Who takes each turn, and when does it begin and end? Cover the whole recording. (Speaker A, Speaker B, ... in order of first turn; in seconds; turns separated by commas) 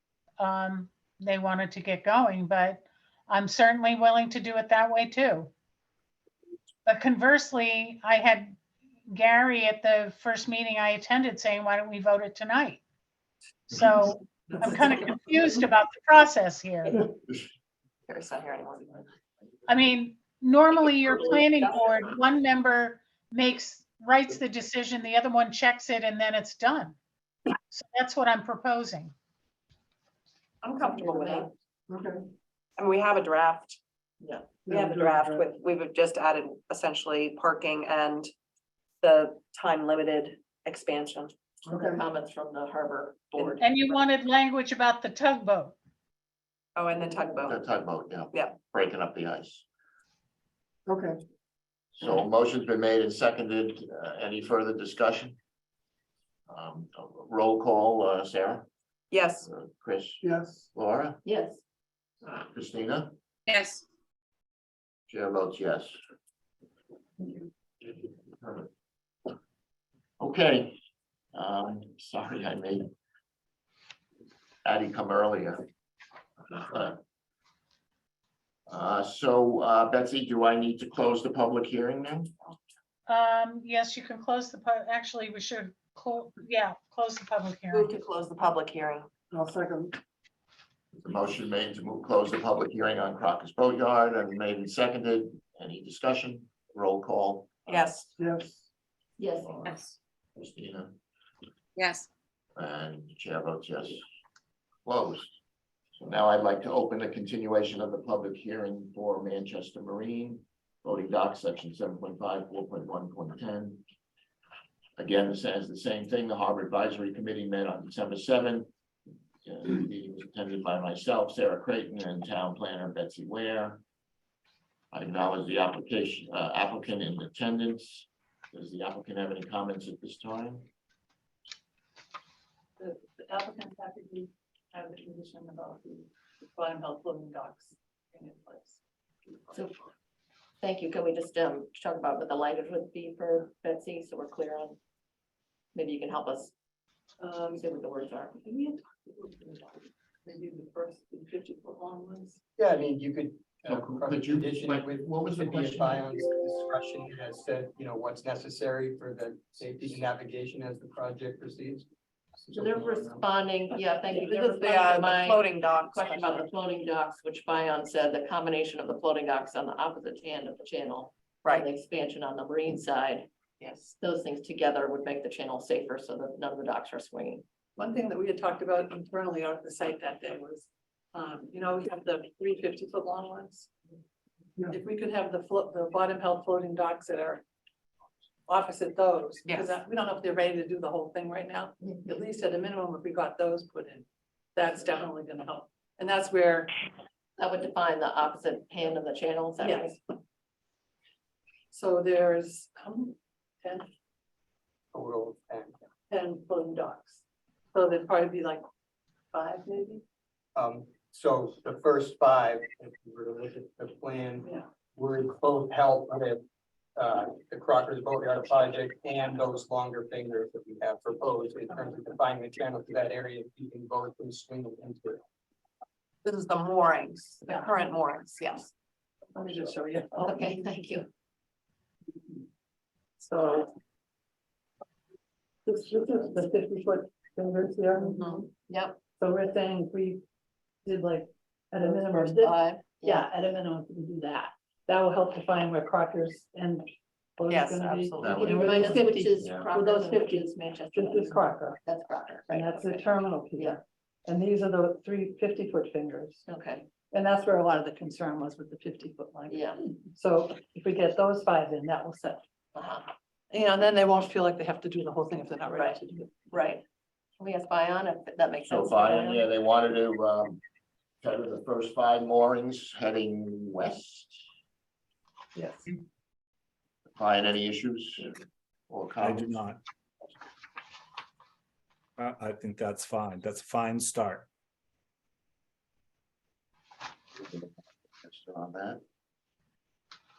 Speaker A: 0.4-5.5, Speaker A: 6.8-12.8, Speaker A: 13.7-17.0, Speaker B: 18.1-19.0, Speaker A: 19.7-27.0, Speaker A: 27.7-29.1, Speaker B: 30.6-31.5, Speaker C: 31.0-31.5, Speaker D: 31.9-32.2, Speaker B: 32.8-33.8, Speaker C: 34.2-34.6, Speaker D: 34.7-35.4, Speaker B: 34.7-38.3, Speaker B: 39.0-41.3, Speaker D: 41.7-42.0, Speaker C: 41.8-43.6, Speaker B: 43.4-43.9, Speaker A: 43.6-45.8, Speaker B: 46.8-47.6, Speaker E: 47.5-49.6, Speaker D: 50.9-51.2, Speaker E: 52.0-55.4, Speaker E: 56.5-58.7, Speaker B: 59.1-59.5, Speaker E: 59.4-61.2, Speaker C: 61.2-61.6, Speaker E: 62.2-63.1, Speaker B: 63.5-63.8, Speaker E: 65.1-66.0, Speaker E: 68.3-68.7, Speaker E: 70.2-70.8, Speaker E: 71.3-72.9, Speaker E: 74.7-75.7, Speaker E: 76.5-77.0, Speaker E: 78.7-82.3, Speaker A: 83.1-87.9, Speaker B: 87.7-89.1, Speaker D: 89.3-89.9, Speaker E: 91.0-97.8, Speaker B: 97.7-98.1, Speaker D: 98.2-98.6, Speaker C: 99.2-99.6, Speaker B: 99.7-99.9, Speaker E: 100.4-101.0, Speaker B: 101.8-102.1, Speaker E: 102.6-104.0, Speaker E: 104.8-105.3, Speaker E: 106.0-113.8, Speaker E: 115.0-118.7, Speaker E: 119.4-123.8, Speaker E: 124.9-130.7, Speaker F: 132.8-138.8, Speaker C: 140.6-144.8, Speaker C: 145.7-146.5, Speaker F: 147.2-147.7, Speaker C: 147.6-148.4, Speaker F: 148.4-152.4, Speaker G: 152.6-161.9, Speaker E: 153.7-156.2, Speaker G: 162.5-163.2, Speaker C: 162.6-173.3, Speaker B: 164.1-166.5, Speaker B: 173.6-173.9, Speaker C: 174.0-177.4, Speaker F: 177.8-183.7, Speaker F: 184.7-187.4, Speaker F: 188.5-196.7, Speaker B: 189.5-189.8, Speaker C: 197.4-200.0, Speaker F: 199.6-200.0, Speaker F: 201.7-203.9, Speaker G: 204.9-205.8, Speaker F: 206.1-207.2, Speaker F: 207.7-208.7, Speaker F: 209.3-210.0, Speaker G: 210.6-216.4, Speaker G: 217.0-225.2, Speaker F: 221.7-222.0, Speaker B: 226.2-228.7, Speaker F: 229.3-230.5, Speaker C: 230.2-231.1, Speaker F: 233.2-233.7, Speaker F: 235.7-238.5, Speaker C: 238.6-239.0, Speaker F: 239.2-240.2, Speaker F: 240.9-251.8, Speaker C: 241.8-243.3, Speaker B: 247.5-248.3, Speaker E: 248.2-249.7, Speaker C: 248.3-253.8, Speaker F: 252.5-256.4, Speaker C: 256.5-256.9, Speaker F: 257.1-262.4, Speaker C: 259.5-259.8, Speaker C: 262.8-263.1, Speaker F: 263.5-266.3, Speaker C: 266.5-266.8, Speaker C: 267.4-269.4, Speaker E: 268.6-270.6, Speaker F: 269.1-269.4, Speaker E: 271.2-274.4, Speaker F: 275.6-275.9, Speaker E: 277.1-278.3, Speaker E: 278.9-279.6, Speaker H: 279.2-279.8, Speaker H: 282.2-284.5, Speaker E: 288.2-289.0